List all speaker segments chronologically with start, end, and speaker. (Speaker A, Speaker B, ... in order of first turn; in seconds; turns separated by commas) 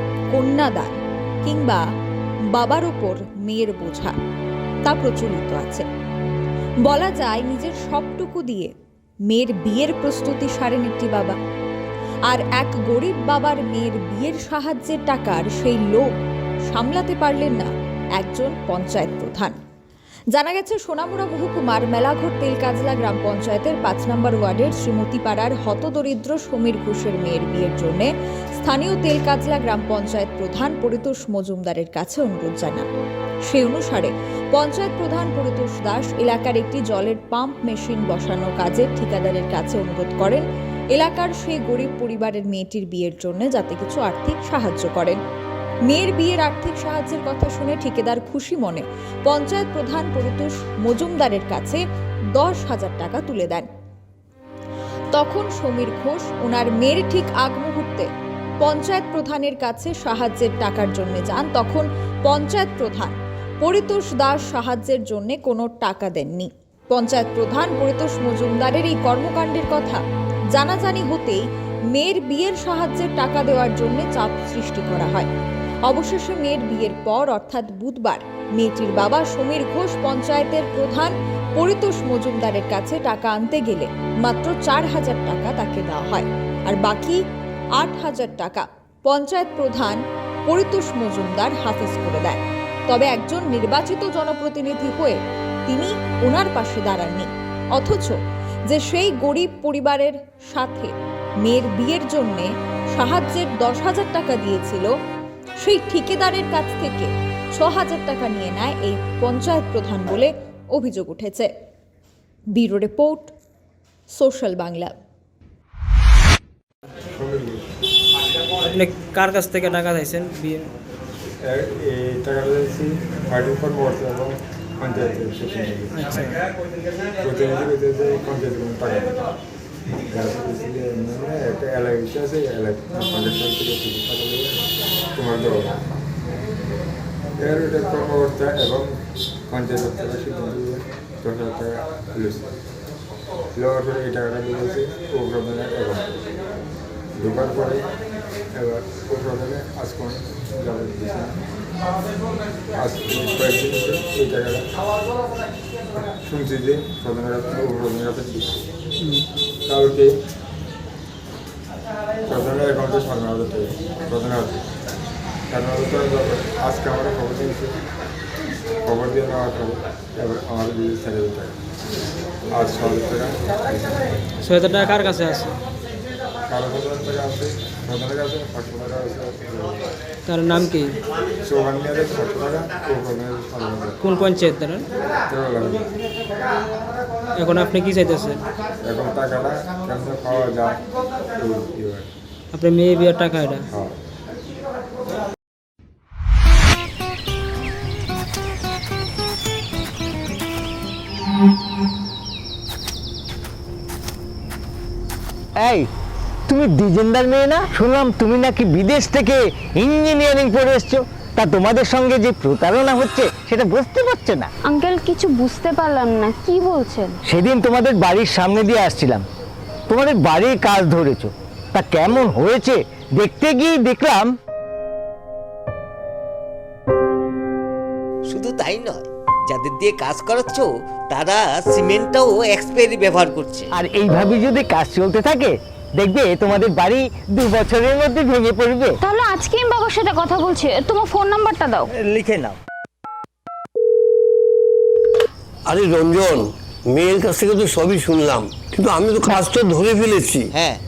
Speaker A: 0.3-0.9, Speaker A: 1.4-1.8, Speaker A: 2.5-4.2, Speaker A: 4.8-5.8, Speaker A: 6.8-8.7, Speaker A: 9.3-11.4, Speaker A: 12.3-16.1, Speaker A: 16.7-19.6, Speaker A: 20.3-32.9, Speaker A: 33.5-45.2, Speaker A: 45.9-51.8, Speaker A: 52.4-53.7, Speaker A: 55.1-58.1, Speaker A: 58.6-70.0, Speaker A: 70.5-75.3, Speaker A: 75.9-87.2, Speaker A: 87.8-98.2, Speaker A: 98.7-100.9, Speaker A: 101.4-104.9, Speaker A: 105.6-111.5, Speaker A: 112.5-113.3, Speaker A: 114.1-114.9, Speaker B: 117.1-117.7, Speaker C: 118.7-120.7, Speaker B: 121.4-126.0, Speaker C: 125.9-126.4, Speaker B: 127.2-129.3, Speaker B: 130.1-134.6, Speaker B: 135.2-135.8, Speaker B: 137.4-138.9, Speaker B: 139.5-142.5, Speaker B: 143.6-146.1, Speaker B: 147.2-147.9, Speaker B: 148.5-151.4, Speaker B: 152.8-154.7, Speaker B: 156.0-158.6, Speaker C: 159.0-159.3, Speaker B: 159.7-160.1, Speaker B: 162.3-164.7, Speaker B: 165.5-167.8, Speaker B: 168.8-171.6, Speaker B: 172.5-174.1, Speaker C: 174.4-175.6, Speaker B: 176.5-179.9, Speaker C: 180.3-181.0, Speaker B: 181.4-184.0, Speaker C: 184.0-184.9, Speaker B: 185.3-185.9, Speaker C: 187.4-188.4, Speaker B: 188.8-192.1, Speaker C: 192.5-193.7, Speaker B: 193.7-194.0, Speaker D: 205.6-205.9, Speaker D: 206.5-214.5, Speaker E: 214.6-217.2, Speaker D: 217.3-219.2, Speaker D: 219.9-224.3, Speaker F: 228.3-233.7, Speaker D: 233.7-239.0, Speaker E: 239.0-241.9, Speaker G: 245.7-250.5